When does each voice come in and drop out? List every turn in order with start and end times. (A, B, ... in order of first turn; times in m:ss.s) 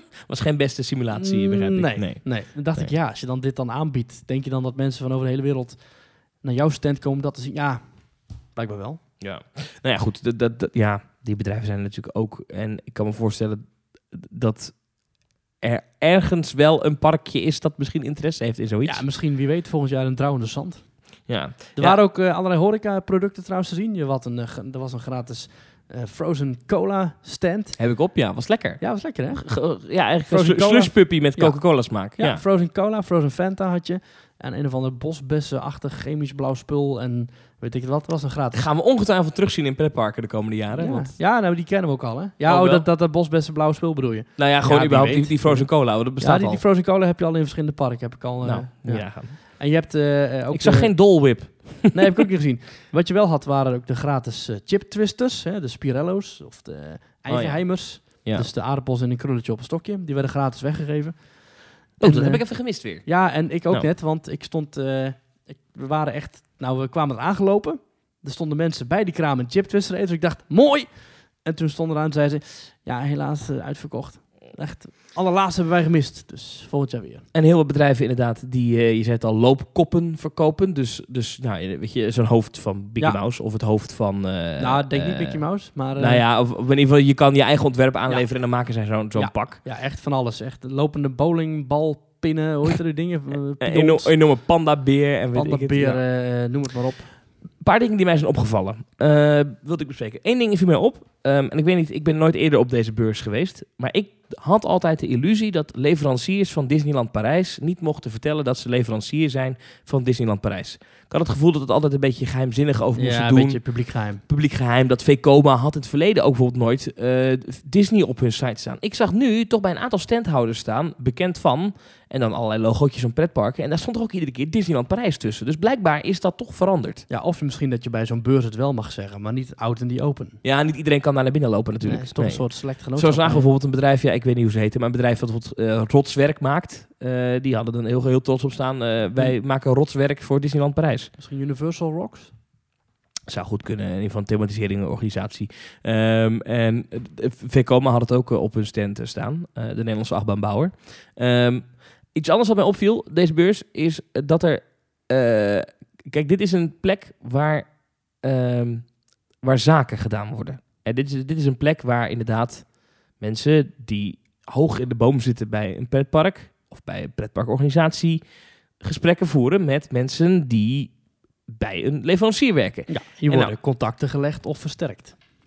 0:00.2-0:02.9 A
0:01.1-0:09.0 B
0:09.2-0:19.0 A
0:18.8-0:28.1 B
0:21.2-0:22.0 A
0:27.8-0:32.4 A
0:28.8-0:29.7 B
0:30.2-0:38.6 B
0:38.5-0:41.2 A
0:40.7-1:17.2 B
0:42.4-0:42.9 A
0:44.4-0:46.6 A
0:48.4-0:49.4 A
0:50.5-0:52.1 A
0:57.3-0:58.5 A
1:02.0-1:03.9 A
1:17.3-1:29.6 A
1:24.6-1:26.2 B
1:28.1-1:34.2 B
1:33.6-1:36.0 A
1:35.3-1:37.2 B
1:37.5-2:07.0 A
1:53.0-1:54.2 B
2:07.1-2:10.4 B
2:10.4-2:21.1 A
2:11.8-2:13.5 B
2:21.2-2:22.4 B
2:23.3-2:48.2 A
2:48.8-2:53.5 A
2:52.9-2:55.2 B